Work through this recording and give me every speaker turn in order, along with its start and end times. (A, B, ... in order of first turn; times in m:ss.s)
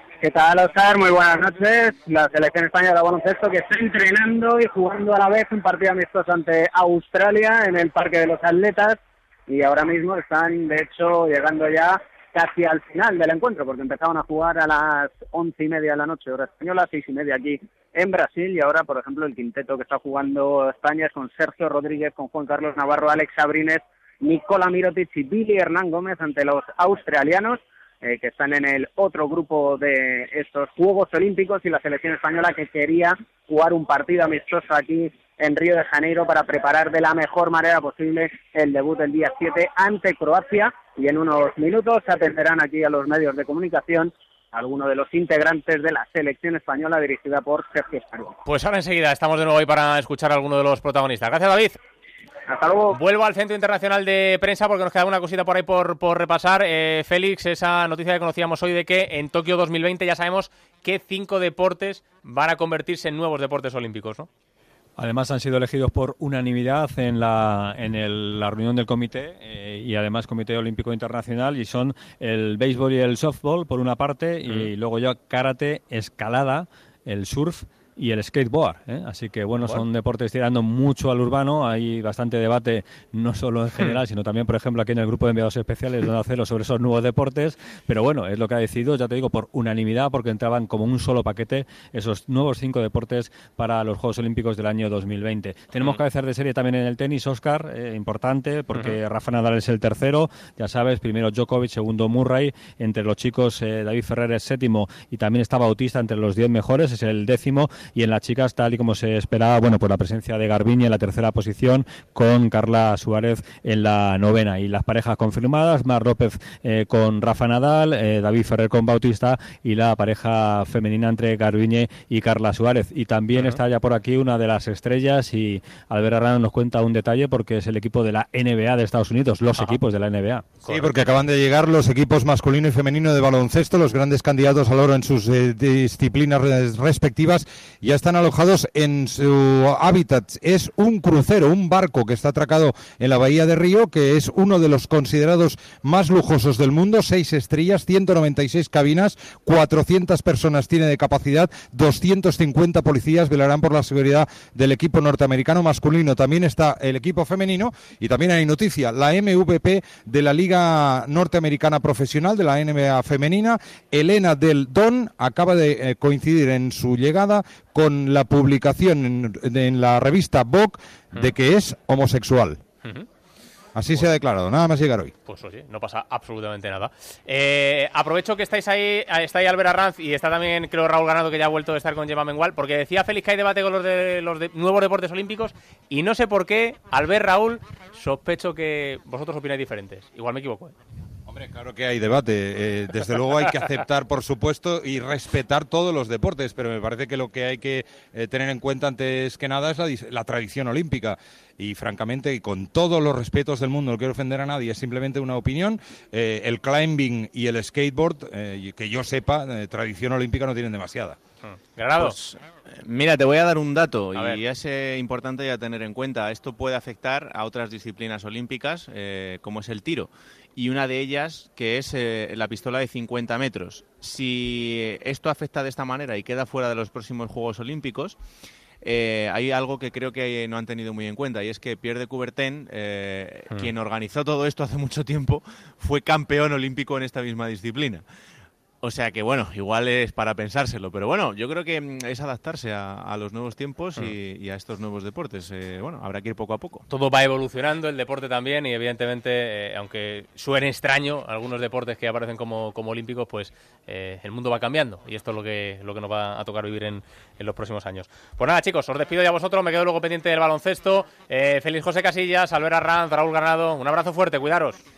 0:00.2-0:48.4 A
0:48.4-0:51.8 B
0:52.5-0:53.0 A
0:52.9-1:04.3 B
1:05.0-2:10.4 C
2:10.6-2:10.9 B
2:10.7-2:52.6 D
2:53.8-2:55.1 D
2:55.3-3:10.8 B
3:11.3-3:31.2 D
3:31.5-3:32.2 B
3:32.0-3:48.2 E
3:34.1-3:34.4 B
3:48.8-3:58.0 E
3:58.8-4:06.8 E
4:06.9-4:24.8 B